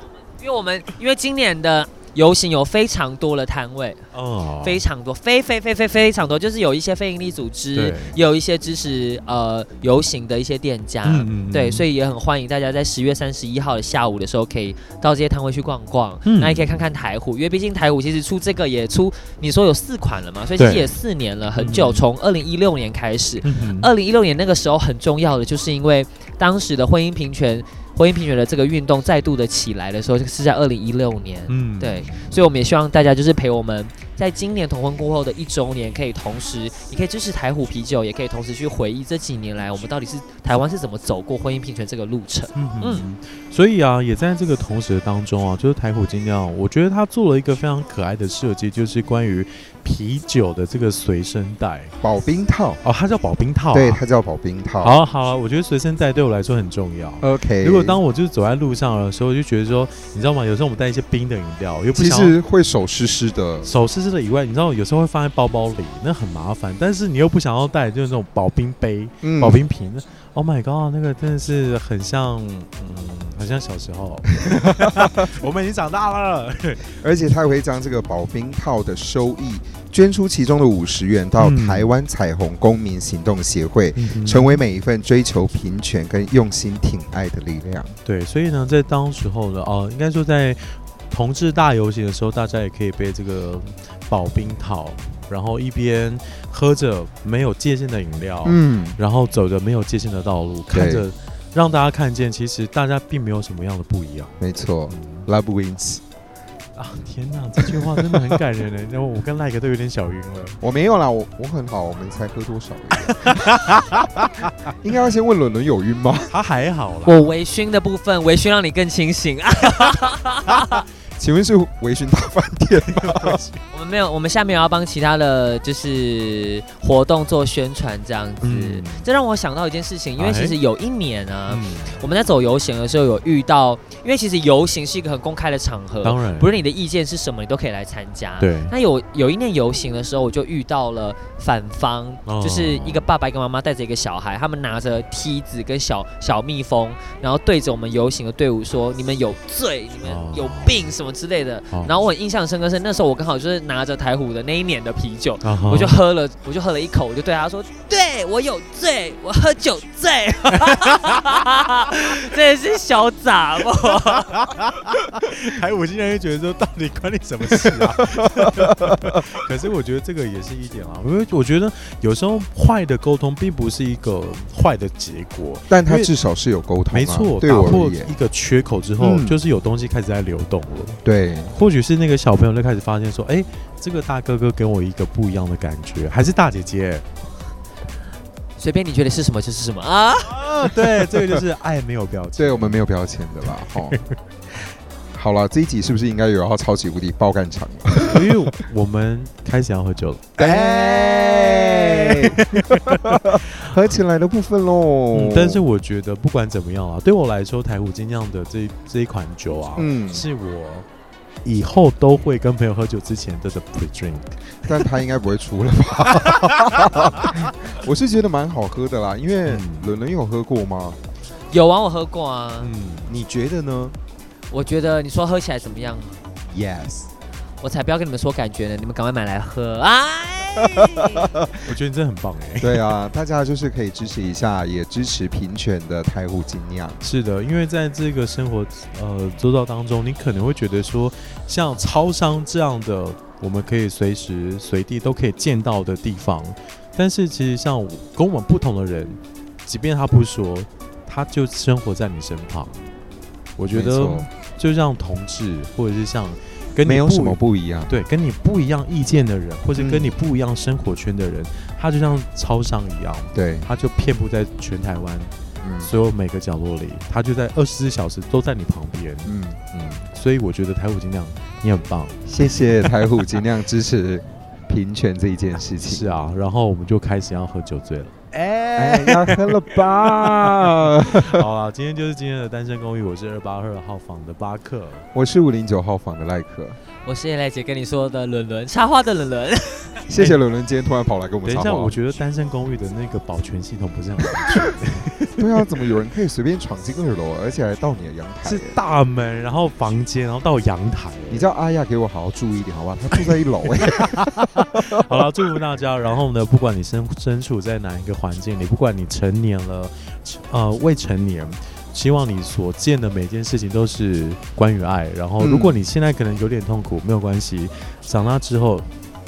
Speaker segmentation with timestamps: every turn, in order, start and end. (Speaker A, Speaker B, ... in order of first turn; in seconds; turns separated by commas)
Speaker A: 0.4-4.1, Speaker B: 4.1-4.8, Speaker A: 4.6-43.0, Speaker B: 7.7-8.2, Speaker B: 11.0-11.8, Speaker B: 16.2-16.7, Speaker B: 20.6-21.0, Speaker B: 21.6-22.0, Speaker B: 23.4-23.9, Speaker B: 31.5-32.2, Speaker B: 42.5-51.9, Speaker C: 52.0-52.8, Speaker B: 52.8-54.0, Speaker C: 53.7-55.0, Speaker B: 54.8-62.4, Speaker C: 57.2-58.0, Speaker C: 61.9-63.7, Speaker B: 63.6-76.9, Speaker C: 69.2-69.6, Speaker C: 74.4-75.3, Speaker C: 76.9-88.0, Speaker B: 81.4-81.9, Speaker B: 83.9-84.6, Speaker B: 88.0-105.3, Speaker C: 98.4-99.0, Speaker C: 100.7-101.1, Speaker C: 104.4-106.0, Speaker B: 106.8-110.6, Speaker C: 107.6-108.4, Speaker C: 110.6-116.3, Speaker B: 113.0-114.5, Speaker B: 116.3-117.2, Speaker A: 117.0-120.8, Speaker C: 121.2-123.4, Speaker B: 122.9-123.6, Speaker A: 123.7-164.4, Speaker B: 128.4-129.1, Speaker B: 130.2-130.6, Speaker B: 131.5-132.0, Speaker B: 136.0-136.5, Speaker B: 138.4-138.7, Speaker B: 142.2-143.1, Speaker B: 150.0-150.9, Speaker B: 155.4-156.0, Speaker B: 160.5-162.0, Speaker B: 164.1-176.1, Speaker C: 168.2-169.2, Speaker C: 175.7-178.1, Speaker B: 176.9-187.1, Speaker C: 179.0-179.4, Speaker C: 181.0-181.5, Speaker A: 188.6-190.4, Speaker B: 190.2-192.8, Speaker C: 192.3-194.0, Speaker B: 193.7-194.1, Speaker C: 195.1-198.3, Speaker B: 198.0-203.9, Speaker C: 200.4-205.6, Speaker B: 205.1-210.9, Speaker C: 209.8-210.3, Speaker B: 211.4-214.3, Speaker C: 214.6-221.0, Speaker B: 216.2-217.4, Speaker B: 219.4-219.9, Speaker A: 221.5-222.7, Speaker B: 222.6-223.2, Speaker C: 223.1-223.9, Speaker A: 224.5-226.2, Speaker C: 226.5-227.1, Speaker A: 227.6-231.3, Speaker C: 230.6-231.5, Speaker B: 231.6-232.8, Speaker C: 232.6-237.0, Speaker B: 237.0-252.8, Speaker B: 253.6-272.9, Speaker C: 253.7-254.3, Speaker C: 256.8-257.9, Speaker C: 259.8-260.1, Speaker C: 263.3-263.7, Speaker C: 265.6-265.9, Speaker C: 269.2-269.7, Speaker C: 272.2-276.1, Speaker B: 275.8-285.1, Speaker C: 278.8-281.4, Speaker C: 285.1-286.8, Speaker A: 287.0-290.1, Speaker C: 290.1-292.0, Speaker B: 291.4-295.4, Speaker C: 294.4-294.6, Speaker C: 295.4-298.8, Speaker B: 298.4-301.5, Speaker C: 301.3-305.2, Speaker B: 303.8-318.9, Speaker C: 315.4-315.8